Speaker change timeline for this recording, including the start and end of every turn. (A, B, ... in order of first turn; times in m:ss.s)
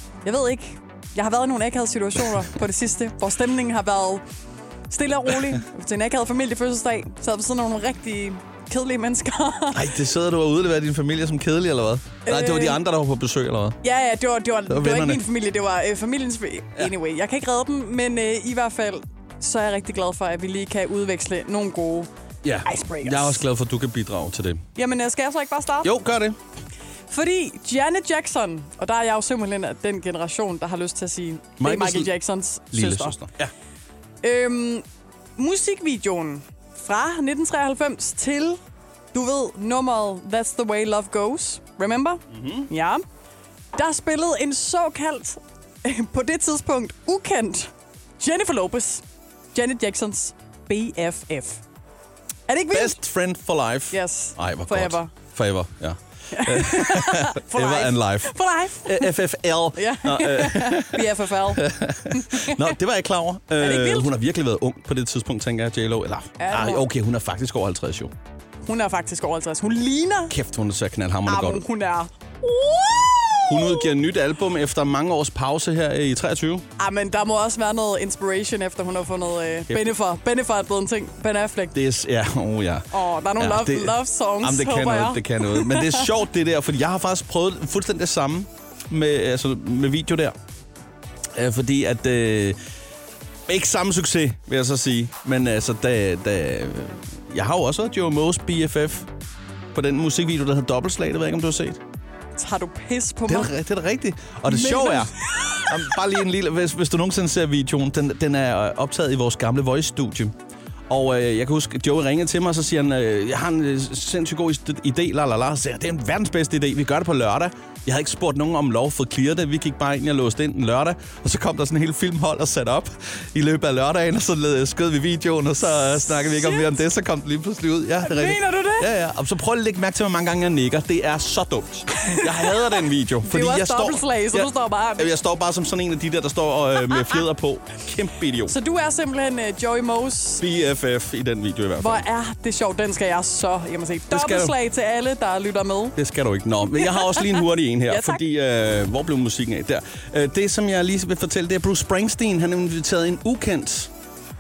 0:00.2-0:04.2 A
0:04.9-0:09.9 A
0:09.7-0:13.8 B
0:12.3-0:12.8 A
0:13.8-0:22.1 A
0:14.7-0:15.2 B
0:22.4-0:24.6 B
0:22.6-0:23.4 A
0:24.8-0:25.9 A
0:25.8-0:26.4 B
0:27.1-0:33.2 A
0:31.6-0:32.1 B
0:32.7-0:33.5 B
0:34.2-0:34.8 A
0:35.4-0:38.6 A
0:39.1-0:43.0 A
0:42.3-0:42.7 B
0:43.7-0:51.6 A
0:52.5-0:53.0 A
0:52.7-1:08.1 B
0:53.9-0:55.1 A
0:56.3-0:59.1 A
0:59.8-1:02.7 A
1:03.6-1:04.1 A
1:06.4-1:06.9 A
1:08.7-1:10.4 A
1:10.3-1:11.7 B
1:11.3-1:14.0 A
1:13.5-1:16.6 B
1:16.8-1:21.8 A
1:19.7-1:19.9 B
1:21.7-1:30.4 B
1:22.9-1:26.1 A
1:31.4-1:32.6 B
1:33.5-1:39.1 B
1:39.7-1:41.8 B
1:42.4-1:43.5 A
1:43.3-1:50.3 B
1:44.5-1:45.7 A
1:50.9-2:18.6 B
2:06.3-2:06.7 A
2:08.0-2:08.9 A
2:11.9-2:15.1 A
2:18.4-2:20.4 A
2:20.4-2:22.0 B
2:21.8-2:26.0 A
2:24.1-2:24.6 B
2:26.0-2:33.9 B
2:26.8-2:28.2 A